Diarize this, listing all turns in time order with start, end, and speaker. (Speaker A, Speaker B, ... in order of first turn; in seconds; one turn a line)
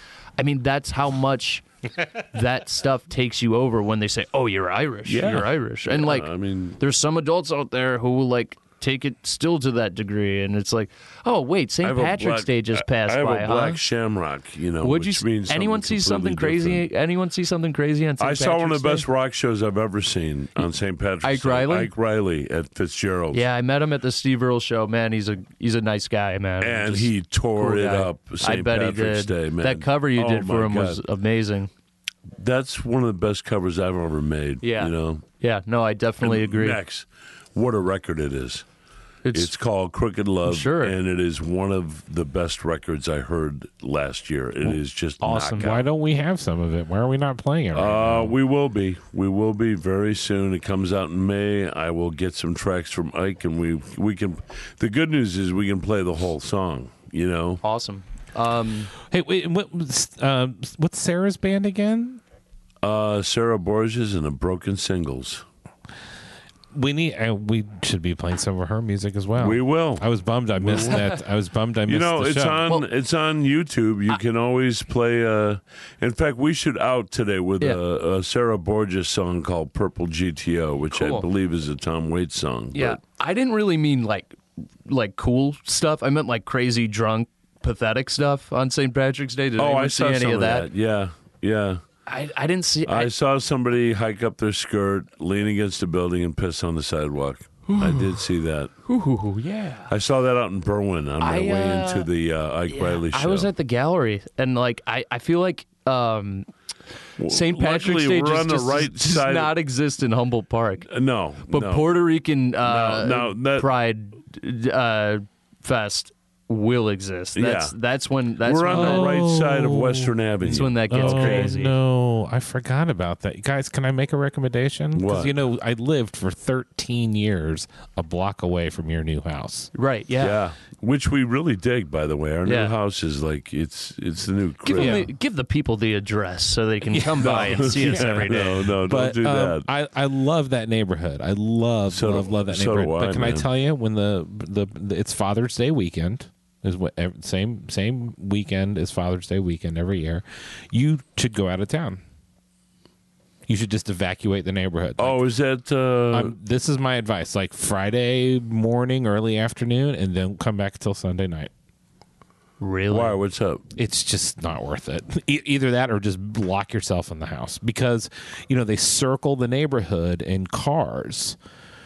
Speaker A: 0.4-13.8
Speaker B: 5.0-6.8
Speaker B: 11.8-16.8
Speaker A: 14.8-19.1
Speaker B: 18.2-23.4
Speaker A: 21.2-21.9
Speaker A: 23.3-31.7
Speaker B: 26.6-31.0
Speaker B: 32.4-35.2
Speaker A: 34.6-36.8
Speaker B: 36.2-38.6
Speaker A: 39.2-39.5
Speaker B: 39.3-45.8
Speaker A: 40.4-41.0
Speaker A: 45.2-45.8
Speaker C: 45.5-48.4
Speaker B: 47.7-57.6
Speaker A: 57.6-58.9
Speaker C: 59.0-62.2
Speaker B: 62.8-65.4
Speaker C: 66.7-72.6
Speaker B: 69.4-71.1
Speaker B: 71.9-83.0
Speaker A: 80.9-81.3
Speaker A: 82.7-90.7
Speaker B: 89.6-91.8
Speaker A: 92.1-93.1
Speaker B: 92.8-98.7
Speaker A: 97.7-98.2
Speaker A: 98.9-99.9
Speaker B: 99.9-103.5
Speaker A: 101.2-102.1
Speaker A: 102.7-106.5
Speaker B: 107.2-109.5
Speaker A: 107.2-110.9
Speaker B: 110.9-111.9
Speaker A: 111.5-119.2
Speaker B: 112.6-113.7
Speaker B: 117.3-117.7
Speaker B: 118.4-121.5
Speaker C: 118.7-120.1
Speaker A: 120.4-121.7
Speaker C: 120.9-129.7
Speaker B: 124.9-125.4
Speaker A: 129.7-130.4
Speaker B: 130.2-135.0
Speaker A: 132.4-132.7
Speaker A: 134.6-138.5
Speaker C: 134.7-135.1
Speaker C: 136.9-152.0
Speaker B: 137.2-139.7
Speaker B: 141.9-143.4
Speaker C: 153.5-155.2
Speaker B: 155.0-156.3
Speaker C: 156.1-161.5
Speaker A: 162.6-163.2
Speaker B: 162.9-163.6
Speaker C: 163.8-171.4